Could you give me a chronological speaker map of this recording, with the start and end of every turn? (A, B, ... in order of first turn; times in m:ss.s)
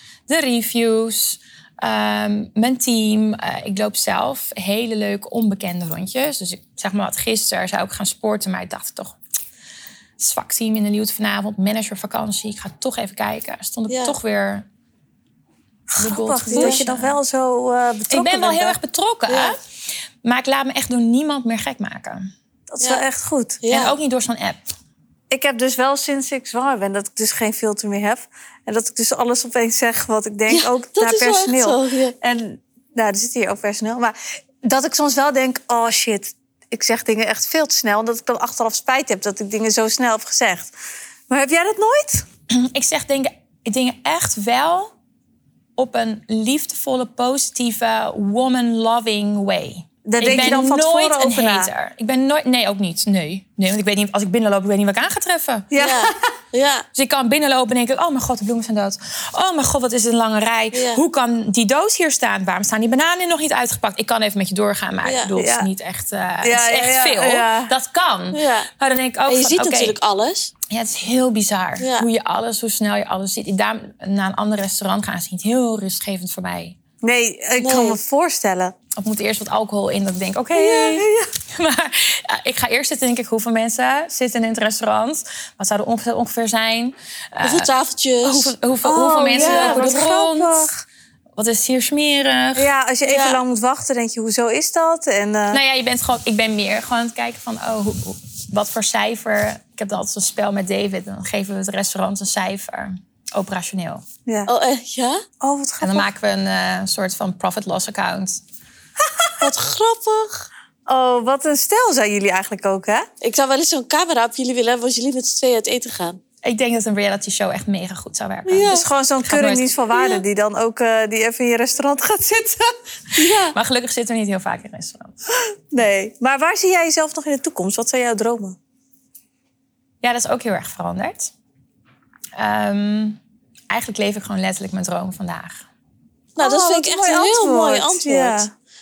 0:00.3-0:09.2 A
0:10.2-0:14.6 A
0:13.9-0:14.2 B
0:15.9-0:18.8 C
0:16.0-0:17.2 A
0:16.5-0:16.8 B
0:18.1-0:19.6 A
0:19.3-0:19.6 B
0:20.2-0:22.3 A
0:22.7-0:23.6 C
0:23.6-0:24.0 B
0:23.7-0:24.6 A
0:25.3-0:40.7 C
0:30.5-0:32.1 B
0:41.3-0:42.2 C
0:42.5-0:44.9 A
0:45.8-0:55.7 A
0:50.0-0:51.7 C
0:55.7-0:56.2 C
0:55.8-0:56.8 B
0:56.9-1:10.0 A
1:00.7-1:01.0 B
1:05.0-1:05.3 B
1:05.4-1:05.7 C
1:06.4-1:07.7 C
1:08.3-1:08.7 B
1:09.3-1:10.5 B
1:10.7-1:16.8 A
1:11.8-1:12.1 B
1:17.0-1:18.7 C
1:17.6-1:18.0 B
1:18.9-1:27.7 A
1:20.5-1:21.3 C
1:27.4-1:28.5 B
1:28.2-1:30.7 A
1:28.8-1:30.7 C
1:29.3-1:30.0 B
1:31.4-1:32.7 A
1:32.6-1:35.6 C
1:33.0-1:33.4 B
1:35.5-1:44.0 A
1:44.4-1:45.2 B
1:45.4-1:46.1 C
1:45.8-1:48.4 A
1:49.4-1:50.5 B
1:50.9-1:53.1 C
1:53.2-1:56.2 B
1:56.4-2:00.2 A
1:58.4-1:58.8 B
1:58.7-2:03.5 C
2:03.2-2:05.2 A
2:05.5-2:08.6 C
2:10.0-2:11.3 A
2:12.4-2:13.2 A
2:13.7-2:15.6 A
2:16.4-2:18.5 B
2:16.4-2:18.5 C